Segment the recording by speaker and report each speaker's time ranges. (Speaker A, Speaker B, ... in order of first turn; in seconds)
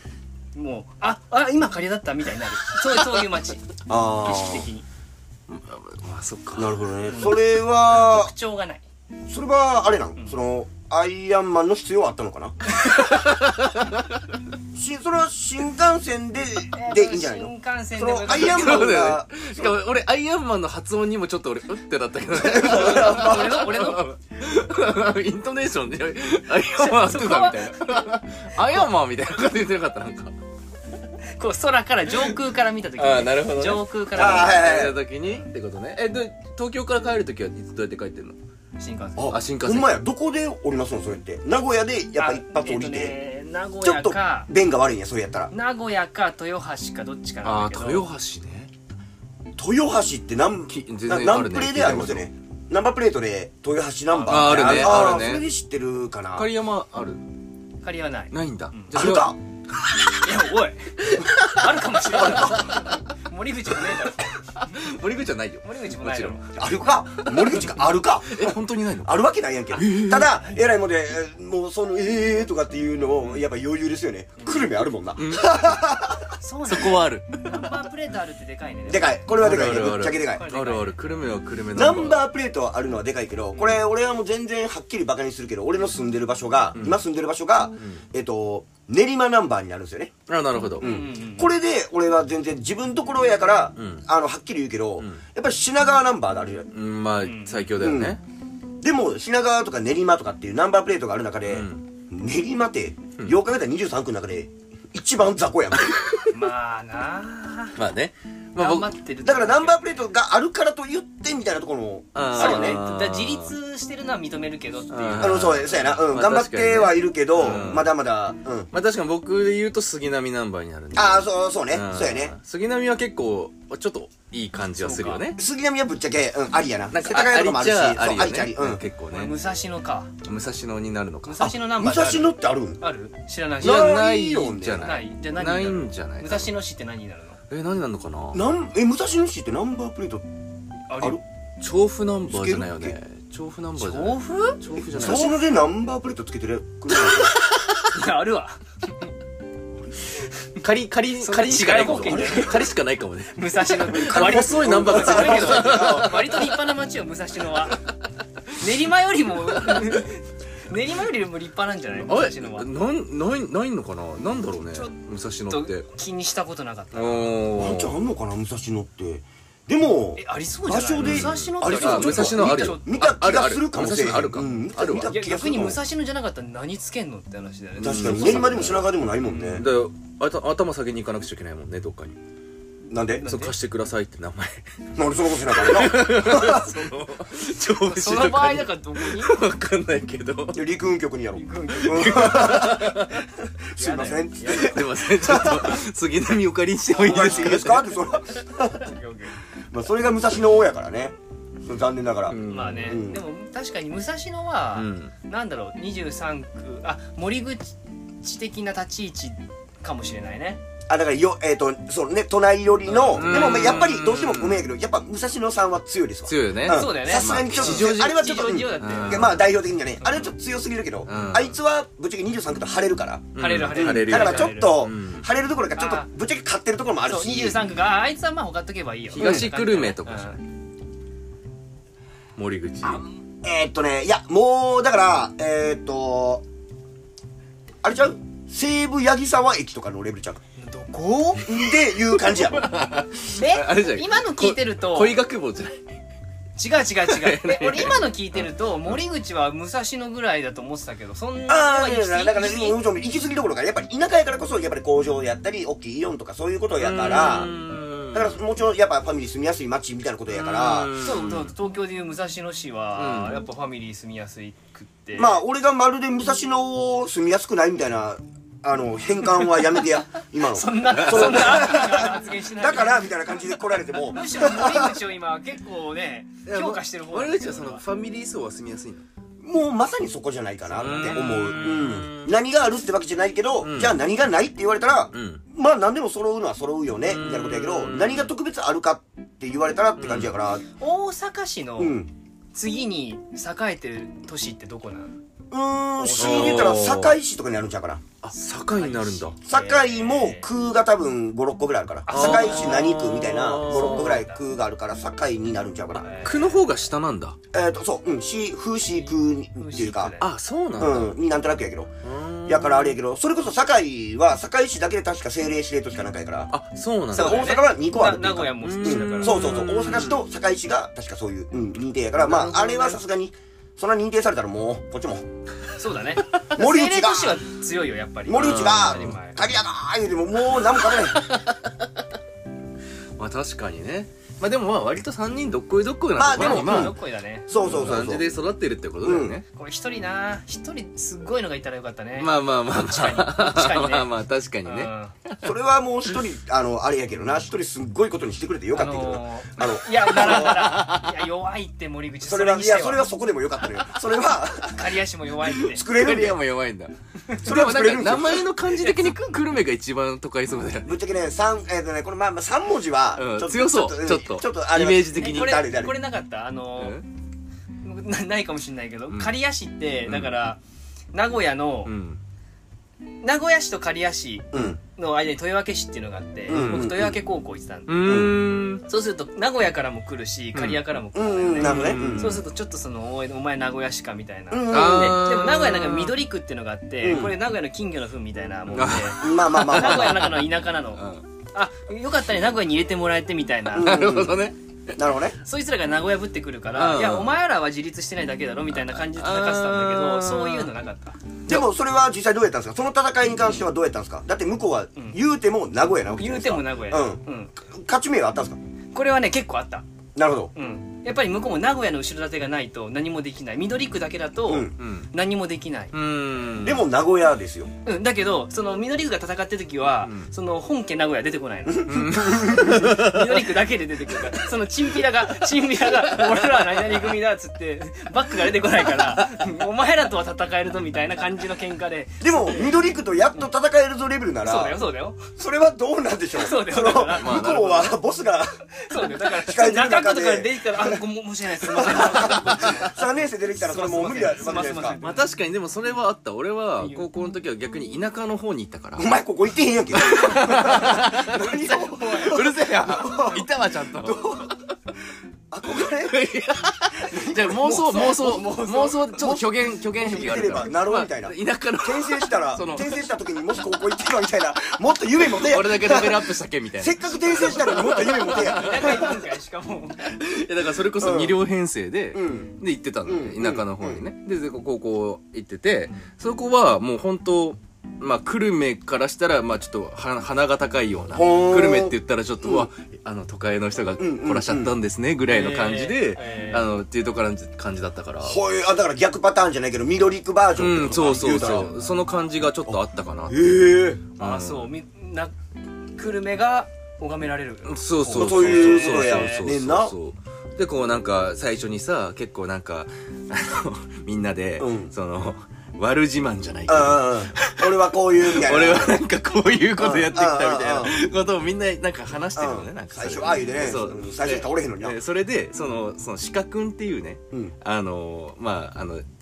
Speaker A: 0.6-4.8, 7.1-7.4, 7.9-8.8, 16.7-19.0, 22.6-24.1, 26.8-28.0, 31.4-34.7, 38.8-39.3, 42.2-44.5, 45.5-48.1, 54.1-55.0, 57.8-59.0, 60.2-64.3, 65.6-66.5, 74.4-74.7, 76.4-79.3, 80.3-81.0, 90.8-91.5, 97.2-97.7, 106.3-107.8, 108.6-109.8, 112.3-115.9, 117.4-117.6, 124.8-125.3, 129.1-130.1, 131.2-134.0, 134.8-137.4, 140.9-141.2, 143.8-145.3, 147.9-148.6, 151.2-152.7, 153.3-157.8, 158.6-162.7, 165.5-167.4, 170.2-173.0, 174.9-179.6, 182.9-183.5, 187.8-189.4, 191.3-192.7, 193.8-194.8, 197.0-197.7, 198.7-199.3, 202.4-210.6, 212.9-213.7, 216.7-220.3, 223.4-224.8, 225.8-226.1, 227.1-230.4, 240.6-241.5, 243.3-245.2, 246.6-252.8, 261.0-265.4, 270.4-273.1, 274.1-277.8, 280.8-281.3, 290.8-292.0, 292.5-295.1, 296.0-296.7, 298.7-300.5, 302.1-303.1, 303.6-304.4, 305.9-306.5, 309.1-310.3, 317.1-320.1, 322.2-323.0, 325.8-329.4, 336.4-337.5, 339.5-344.1, 344.6-345.1, 348.7-353.1, 354.6-355.8, 358.8-359.4, 365.1-367.0, 367.8-370.6, 371.1-371.9, 373.2-378.3, 378.9-394.0, 395.4-401.2, 406.1-407.6, 408.9-409.9, 410.6-415.9, 417.9-432.8, 434.4-435.2, 436.3-437.9, 438.8-443.0, 443.6-445.2, 446.8-447.1, 467.7-470.2, 485.3-486.8, 494.2-495.3, 496.0-499.5
Speaker B: 3.9-4.7, 6.5-8.3, 9.3-12.6, 14.8-19.7, 22.3-23.7, 34.1-35.0, 39.2-43.2, 43.8-45.5, 49.6-56.5, 58.9-59.4, 62.1-62.9, 66.5-76.3, 78.9-80.5, 81.7-90.2, 90.8-96.7, 97.8-98.2, 98.8-106.0, 109.2-112.8, 115.2-118.7, 120.9-122.3, 125.4-128.8, 131.4-132.8, 133.6-134.9, 138.3-140.3, 142.3-142.9, 144.9-147.4, 152.1-152.4, 153.9-156.3, 167.5-175.8, 177.8-179.7, 182.9-183.3, 185.0-186.7, 190.5-195.8, 197.0-198.9, 199.7-203.2, 210.9-227.6, 229.2-229.5, 232.8-236.4, 237.8-240.4, 241.5-242.7, 251.5-257.5, 258.1-260.9, 265.2-274.9, 279.4-290.6, 291.8-292.1, 295.5-298.0, 299.5-306.2, 307.5-310.1, 310.8-311.9, 312.5-316.5, 317.1-325.3, 326.6-327.4, 328.3-331.3, 336.2-338.2, 339.0-339.4, 345.4-350.6, 352.2-354.9, 355.6-356.4, 357.4-358.5, 360.8-365.9, 374.5-374.8, 376.5-377.1, 378.0-378.4, 381.1-382.4, 384.5-385.2, 387.0-387.4, 389.2-390.2, 393.7-394.4, 395.0-395.4, 401.5-408.6, 410.2-410.5, 414.5-414.7, 416.6-417.7, 421.7-423.0, 432.2-434.8, 435.4-438.5, 439.2-441.0, 441.6-445.0, 449.0-453.5, 454.0-454.5, 455.5-456.2, 457.0-469.1, 471.0-471.4, 472.1-472.5, 473.1-474.0, 481.1-482.7, 484.0-484.8, 488.2-491.9, 492.7-494.1, 498.1-499.9, 504.6-504.9, 506.7-509.0, 509.8-510.9, 512.4-515.0
Speaker C: 5.5-6.8, 12.8-14.0, 18.4-30.3, 33.0-38.4, 39.3-40.0, 47.4-48.7, 50.7-52.3, 54.3-55.5, 56.4-57.2, 58.3-60.2, 61.1-62.8, 64.6-66.4, 67.3-69.2, 69.7-70.4, 75.2-75.8, 76.7-77.6, 79.3-82.2, 90.3-91.0, 93.8-94.0, 96.7-98.2, 101.5-101.8, 105.9-106.2, 107.8-108.9, 112.2-113.5, 114.9-117.9, 118.7-125.4, 126.9-129.3, 130.2-131.5, 133.6-136.5, 137.5-138.4, 141.6-145.4, 150.6-156.5, 161.9-165.9, 166.9-168.0, 171.0-175.1, 177.8-178.8, 179.5-182.2, 183.2-184.8, 185.5-190.6, 191.8-193.2, 194.5-197.9, 202.3-203.0, 204.8-205.1, 213.1-214.7, 216.3-219.4, 221.1-221.6, 223.3-225.2, 229.1-230.3, 232.4-233.0, 242.3-245.8, 247.1-248.9, 256.8-258.4, 260.3-261.5, 263.0-263.4, 276.5-279.1, 280.8-282.4, 283.6-284.0, 285.1-285.4, 287.1-288.3, 290.0-290.3, 296.2-297.2, 298.2-299.4, 302.1-304.2, 306.2-307.4, 310.2-311.1, 312.0-313.0, 316.5-317.6, 318.6-320.2, 328.4-329.2, 330.7-331.8, 333.2-337.0, 337.6-339.4, 342.2-345.4, 350.1-351.2, 355.6-360.9, 363.2-365.5, 366.8-367.1, 370.1-370.4, 371.9-372.2, 376.5-376.9, 377.9-378.8, 380.5-380.8, 381.6-382.4, 384.7-386.2, 388.7-391.2, 393.8-395.0, 396.8-397.4, 398.7-400.7, 414.8-415.1, 415.9-416.8, 420.0-420.3, 421.9-423.6, 426.2-426.5, 437.1-437.9, 445.0-449.1, 449.9-454.5, 455.9-463.0, 465.2-469.1, 470.1-488.4, 490.6-493.5, 494.2-494.7, 497.7-519.0